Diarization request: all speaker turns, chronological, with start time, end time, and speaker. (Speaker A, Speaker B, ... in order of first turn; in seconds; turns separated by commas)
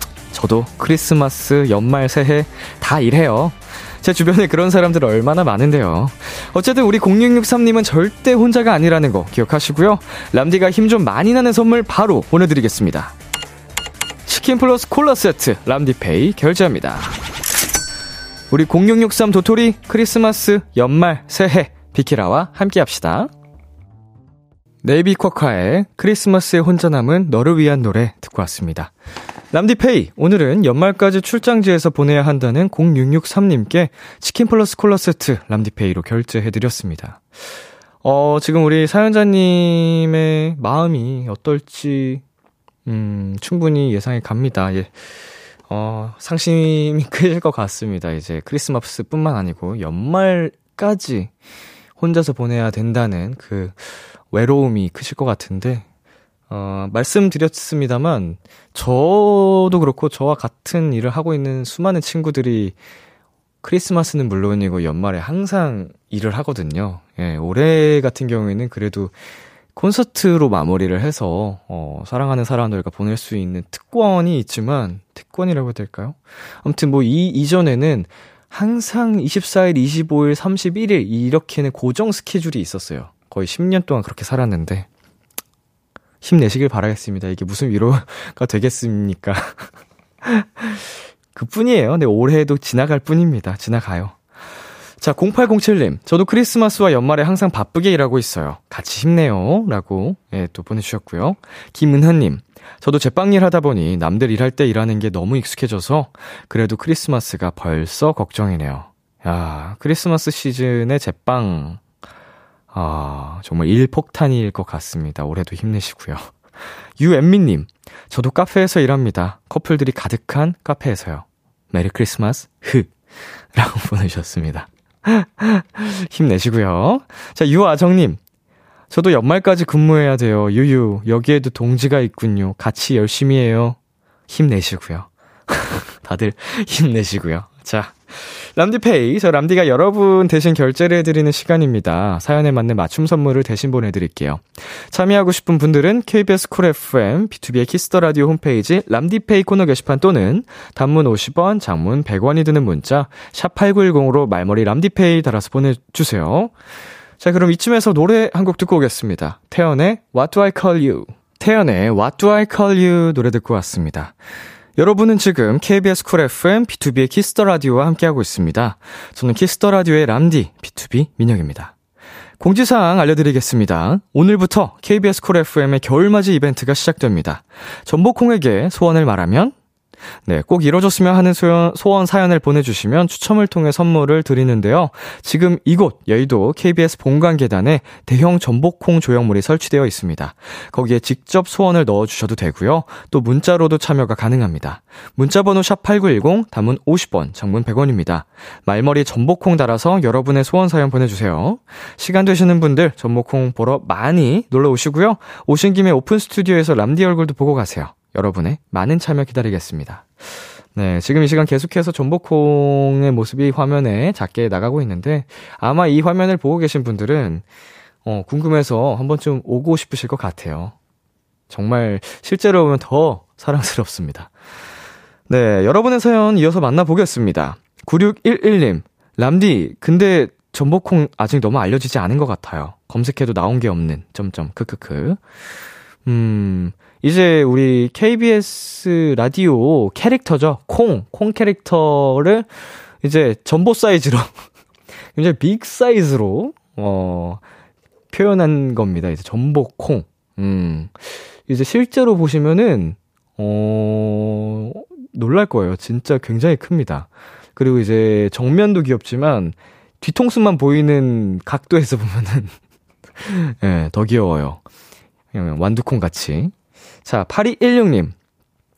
Speaker A: 0.3-13.1, Speaker A: 14.3-17.2, Speaker A: 18.5-23.3, Speaker A: 24.8-28.9, Speaker A: 29.5-37.3, Speaker A: 38.0-42.2, Speaker A: 42.9-45.0, Speaker A: 45.7-51.3, Speaker A: 52.0-55.9, Speaker A: 56.5-62.8, Speaker A: 63.6-69.1, Speaker A: 69.8-84.9, Speaker A: 86.2-89.7, Speaker A: 90.2-94.2, Speaker A: 95.0-111.8, Speaker A: 112.7-116.3, Speaker A: 117.0-122.9, Speaker A: 123.5-128.2, Speaker A: 128.9-156.5, Speaker A: 157.2-164.2, Speaker A: 164.8-171.7, Speaker A: 172.4-179.6, Speaker A: 180.3-217.4, Speaker A: 218.1-220.8, Speaker A: 221.5-224.3, Speaker A: 225.3-235.2, Speaker A: 236.1-242.5, Speaker A: 243.0-244.3, Speaker A: 245.2-247.4, Speaker A: 248.1-262.6, Speaker A: 263.2-264.6, Speaker A: 265.3-266.5, Speaker A: 267.1-268.1